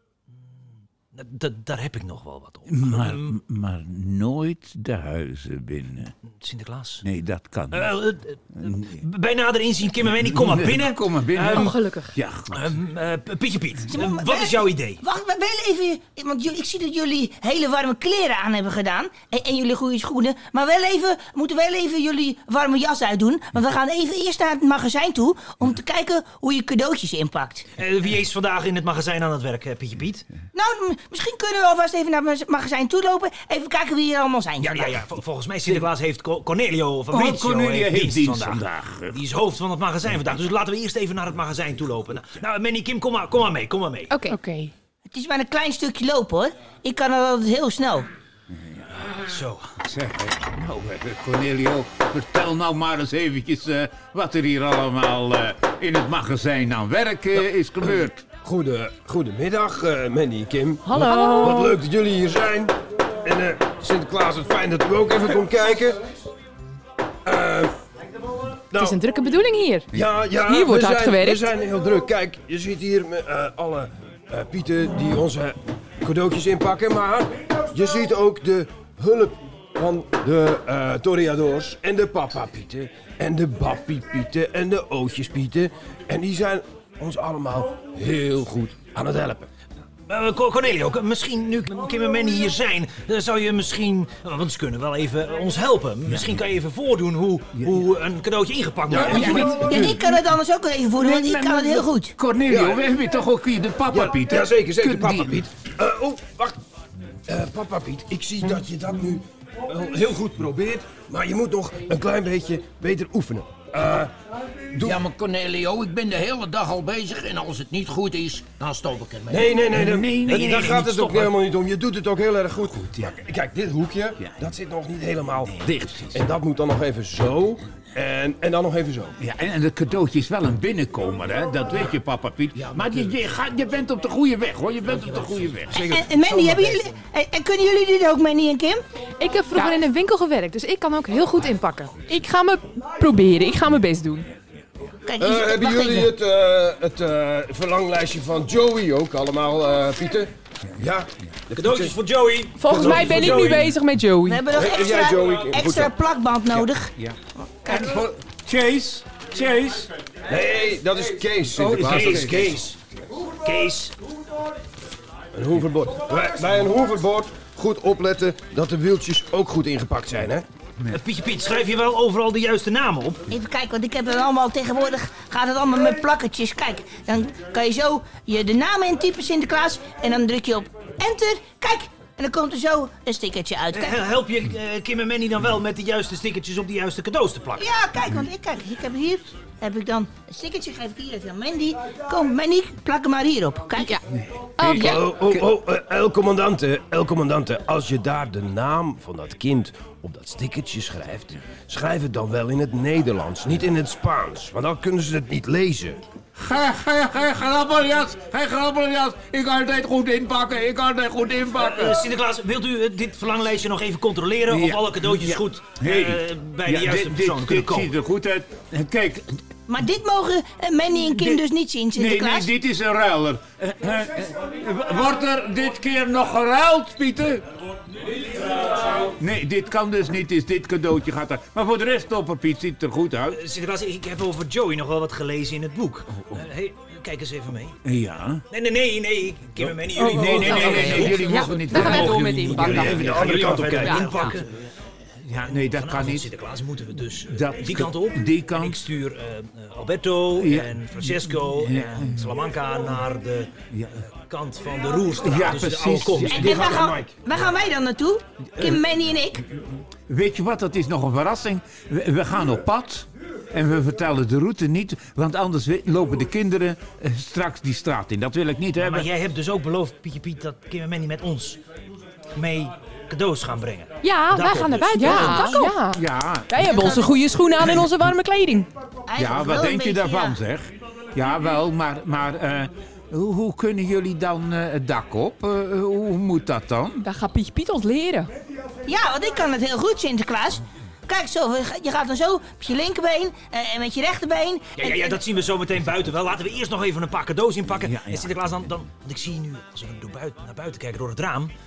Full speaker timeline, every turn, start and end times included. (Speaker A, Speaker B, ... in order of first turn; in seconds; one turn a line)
Speaker A: 0.3-3.4
Speaker B: 2.7-6.1
Speaker A: 6.2-7.0
Speaker B: 7.0-7.9
Speaker A: 7.7-11.8
Speaker B: 8.6-9.0
Speaker B: 10.1-12.8
Speaker C: 11.5-12.1
Speaker A: 12.5-15.0
Speaker D: 13.9-27.7
Speaker A: 27.8-30.3
Speaker D: 30.5-35.0
Speaker A: 34.6-44.1
Speaker B: 37.1-39.2
Speaker C: 44.1-44.4
Speaker E: 44.3-44.7
Speaker D: 45.1-48.1
Speaker B: 48.5-49.0
Speaker A: 49.1-49.8
Speaker B: 49.8-58.2
Speaker F: 58.4-66.1
Speaker C: 60.9-61.7
Speaker E: 60.9-61.8
Speaker F: 67.2-67.7
Speaker F: 68.7-69.0
Speaker C: 68.7-69.9
Speaker F: 69.9-89.5
Speaker E: 70.4-71.5
Speaker A: 90.1-99.6
Speaker B: 96.1-96.4
Speaker B: 97.5-97.9
Speaker F: 98.9-100.0
Speaker B: 99.0-100.1
Speaker D: 99.3-102.2
Speaker B: 101.0-105.5
Speaker F: 102.5-102.8
Speaker F: 103.9-106.6
Speaker F: 107.3-114.1
Speaker G: 114.7-119.6
Speaker F: 114.8-115.0
Speaker F: 119.3-129.2
Speaker B: 119.6-121.0
Speaker A: 120.2-121.3
Speaker B: 122.8-123.2
Speaker B: 124.2-124.5
Speaker B: 125.4-126.3
Speaker B: 129.2-135.8
Speaker F: 132.6-133.0
Speaker F: 135.7-136.9
Speaker D: 135.9-138.8
Speaker C: 139.2-141.9
Speaker E: 142.1-144.3
Speaker D: 145.1-146.1
Speaker F: 145.2-151.9
Speaker A: 151.5-153.7
Speaker E: 152.6-154.5
Speaker F: 152.7-153.6
Speaker D: 154.2-156.9
Speaker F: 154.5-155.9
Speaker B: 156.5-159.9
Speaker F: 160.3-162.5
Speaker B: 161.5-162.6
Speaker A: 161.7-163.9
Speaker F: 165.3-170.5
Speaker A: 170.9-173.3
Speaker D: 173.3-184.0
Speaker A: 183.7-187.7
Speaker D: 187.6-194.0
Speaker B: 194.1-195.5
Speaker E: 194.6-195.1
Speaker F: 194.7-206.0
Speaker B: 206.3-212.0
Speaker A: 211.5-217.9
Speaker B: 214.5-219.5
Speaker D: 219.7-222.5
Speaker B: 221.1-227.5
Speaker B: 229.1-233.4
Speaker A: 233.3-237.8
Speaker B: 236.1-236.5
Speaker B: 237.8-238.4
Speaker A: 238.5-244.7
Speaker E: 240.0-244.0
Speaker B: 240.1-244.5
Speaker F: 242.6-244.1
Speaker B: 245.2-246.3
Speaker A: 245.5-256.9
Speaker B: 247.2-248.8
Speaker B: 250.3-252.3
Speaker B: 253.7-254.0
Speaker B: 255.2-256.6
Speaker D: 256.3-259.4
Speaker F: 256.4-257.2
Speaker B: 258.5-269.1
Speaker A: 268.8-271.6
Speaker A: 272.4-275.3
Speaker C: 274.0-275.8
Speaker E: 274.9-278.7
Speaker B: 275.9-277.2
Speaker D: 279.1-280.4
Speaker B: 279.1-287.1
Speaker E: 287.0-288.3
Speaker D: 288.9-295.2
Speaker A: 294.8-301.5
Speaker B: 297.7-298.7